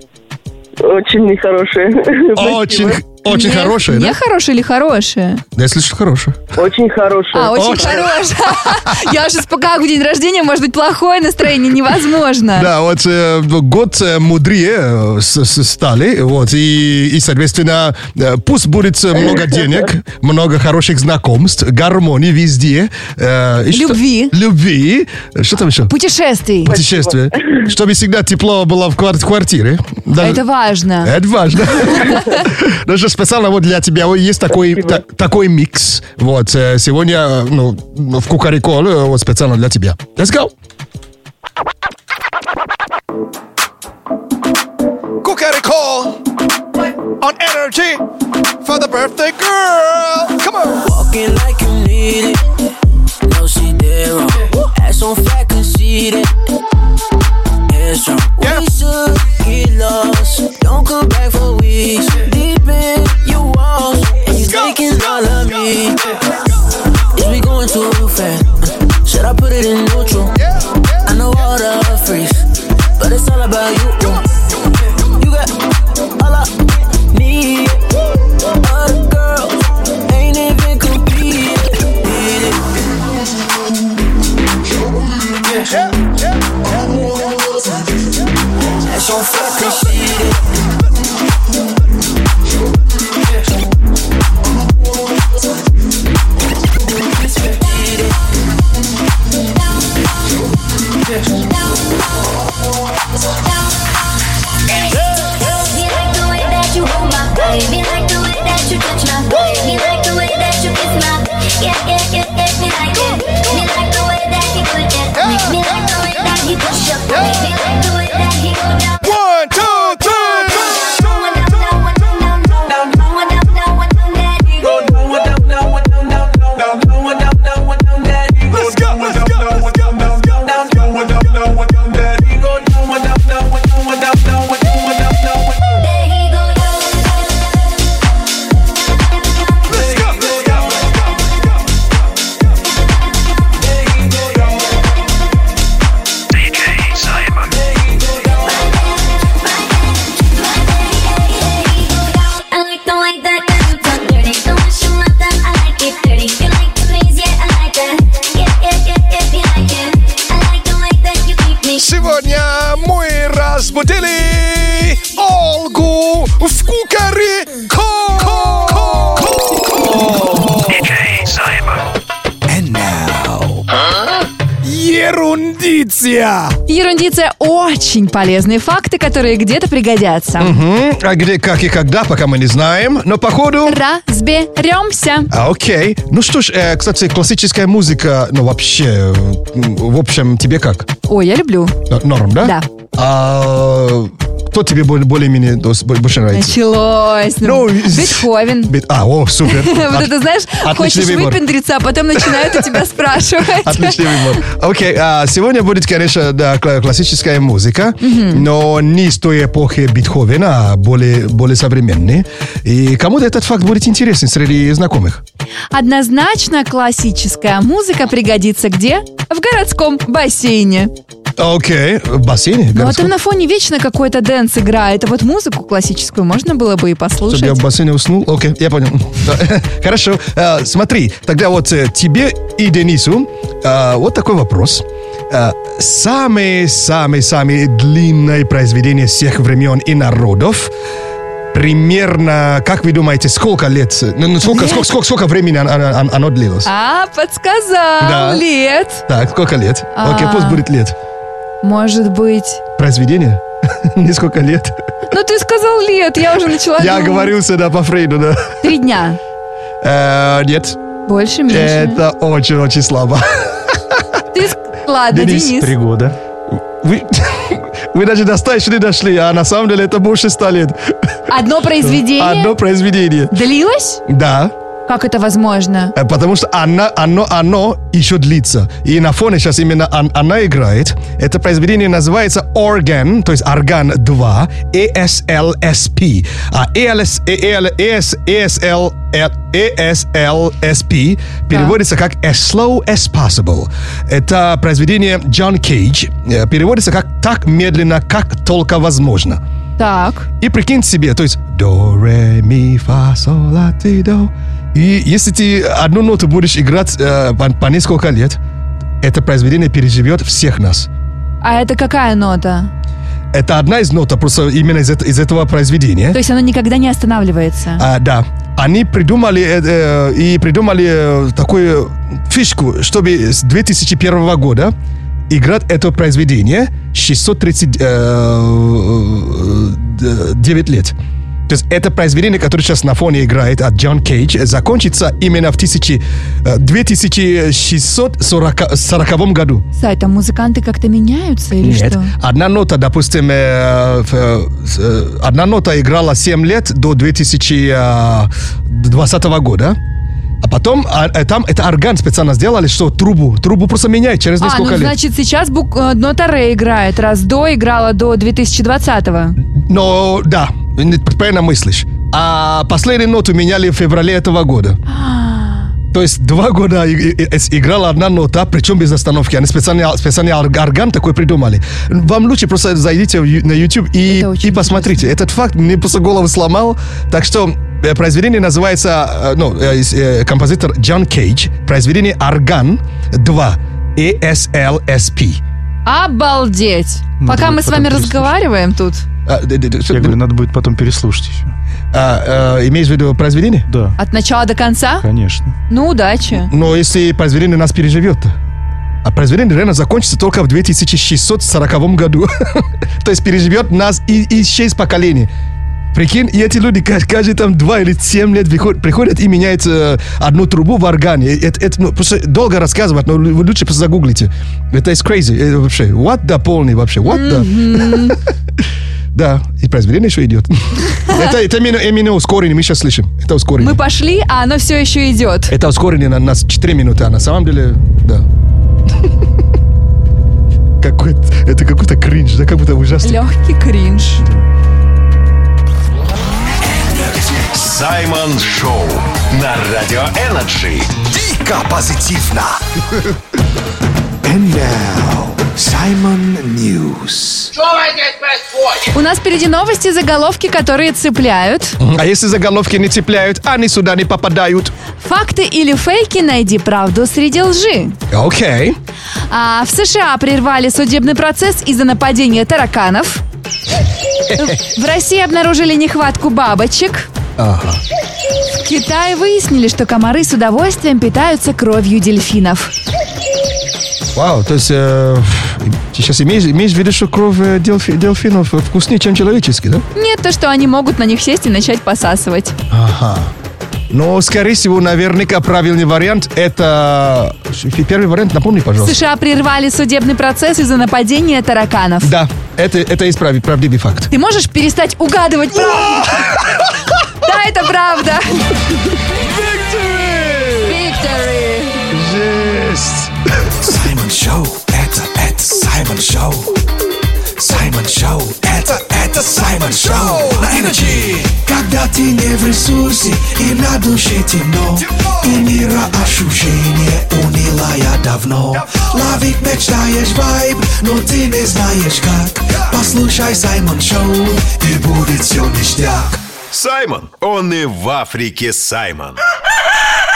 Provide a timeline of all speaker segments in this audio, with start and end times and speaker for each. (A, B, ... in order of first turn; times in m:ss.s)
0:00.8-0:03.0 A
0:02.4-0:04.2 B
0:03.3-0:05.4 C
0:05.6-0:06.4 B
0:06.6-0:07.8 A
0:07.3-0:12.7 C
0:07.5-0:09.0 B
0:12.5-0:25.9 B
0:23.7-0:24.3 C
0:25.9-0:26.8 C
0:26.6-0:30.4 B
0:26.8-0:27.1 A
0:30.2-0:31.2 C
0:31.0-0:40.5 B
0:32.0-0:32.4 C
0:45.2-0:46.1 B
0:47.2-0:48.0 B
0:48.6-0:50.8 B
0:50.8-0:52.6 D
0:53.2-0:56.5 D
0:57.7-1:06.1 D
1:07.1-1:10.4 D
1:11.0-1:12.4 D
1:13.0-1:14.2 D
1:15.2-1:15.5 D
1:16.2-1:17.9 D
1:18.5-1:22.7 D
1:26.8-1:27.6 D
1:28.8-1:30.5 D
1:37.2-1:38.2 D
1:44.9-1:59.0 E
1:59.0-2:00.7 B
2:00.6-2:05.2 E
2:08.5-2:09.3 B
2:15.8-2:17.4 E
2:19.2-2:20.0 E
2:28.4-2:41.9 E
2:41.8-2:49.1 B
2:43.6-2:44.7 F
2:47.6-2:49.9 F
2:49.8-2:50.8 B
2:52.5-2:53.6 F
2:54.7-2:56.5 F
2:56.7-3:00.6 C
3:00.4-3:03.8 B
3:03.7-3:05.3 C
3:05.3-3:10.9 B
3:11.1-3:11.8 C
3:11.9-3:16.6 B
3:12.4-3:12.7 C
3:16.3-3:18.7 C
3:17.4-3:21.4 B
3:19.4-3:24.4 C
3:22.2-3:22.8 B
3:23.6-3:35.2 B
3:28.0-3:28.5 C
3:35.7-3:40.9 C
3:41.4-3:43.1 B
3:42.7-3:47.6 C
3:47.3-4:00.7 B
4:01.5-4:06.7 B
4:04.5-4:04.8 C
4:06.6-4:09.0 C
4:08.0-4:08.4 B
4:09.1-4:11.0 B
4:10.0-4:10.6 C
4:11.6-4:12.6 C
4:12.8-4:14.7 B
4:15.1-4:17.3 C
4:16.8-4:18.6 B
4:18.6-4:19.2 C
4:19.8-4:20.8 B
4:21.1-4:22.0 C
4:21.5-4:23.8 B
4:24.3-4:25.7 C
4:25.1-4:25.5 B
4:25.4-4:26.2 G
4:26.8-4:30.9 B
4:31.3-4:32.5 C
4:31.8-4:33.4 B
4:33.3-4:34.0 C
4:34.1-4:34.5 B
4:34.9-4:35.9 C
4:36.0-4:59.4 B
4:59.8-5:00.3 C
5:00.4-5:08.4 B
5:09.0-5:10.9 B
5:11.4-5:12.7 C
5:13.3-5:16.2 B
5:16.1-5:17.9 C
5:17.8-5:24.7 B
5:25.3-5:31.0 B
5:31.5-5:39.6 B
5:39.8-5:42.1 C
5:41.6-5:49.8 B
5:50.4-5:55.0 B
5:54.4-5:59.4 C
5:59.4-6:04.8 B
6:04.9-6:05.7 C
6:05.9-6:25.4 B
6:14.1-6:15.1 C
6:25.8-6:29.0 C
6:27.2-6:28.3 G
6:29.3-6:30.2 B
6:29.9-6:31.5 G
6:31.9-6:33.7 B
6:33.7-6:34.0 G
6:34.0-6:35.0 C
6:35.0-6:35.6 G
6:35.7-6:36.5 C
6:36.3-6:38.3 B
6:39.0-6:45.3 B
6:45.9-6:58.2 B
6:57.0-6:58.2 C
6:59.1-7:03.8 B
7:03.6-7:05.5 C
7:05.5-7:08.3 B
7:10.8-7:13.2 B
7:13.0-7:14.2 C
7:17.2-7:17.4 F
7:17.5-7:21.0 H
7:21.0-7:22.6 F
7:24.2-7:27.5 F
7:28.9-7:31.8 C
7:31.8-7:34.7 B
7:35.0-7:38.0 C
7:38.1-7:38.8 B
7:39.3-7:43.2 C
7:44.3-7:47.1 C
7:47.4-7:47.8 B
7:48.5-7:52.7 C
7:54.1-7:59.9 B
8:00.0-8:02.6 C
8:02.7-8:03.3 B
8:03.9-8:09.0 B
8:08.8-8:12.1 C
8:12.0-8:14.1 B
8:14.1-8:16.3 C
8:15.8-8:16.3 B
8:17.2-8:18.4 C
8:19.1-8:20.8 B
8:20.6-8:21.8 C
8:21.9-8:23.1 B
8:23.6-8:26.5 F
8:27.4-8:46.2 F
8:29.9-8:30.7 B
8:46.5-8:49.2 H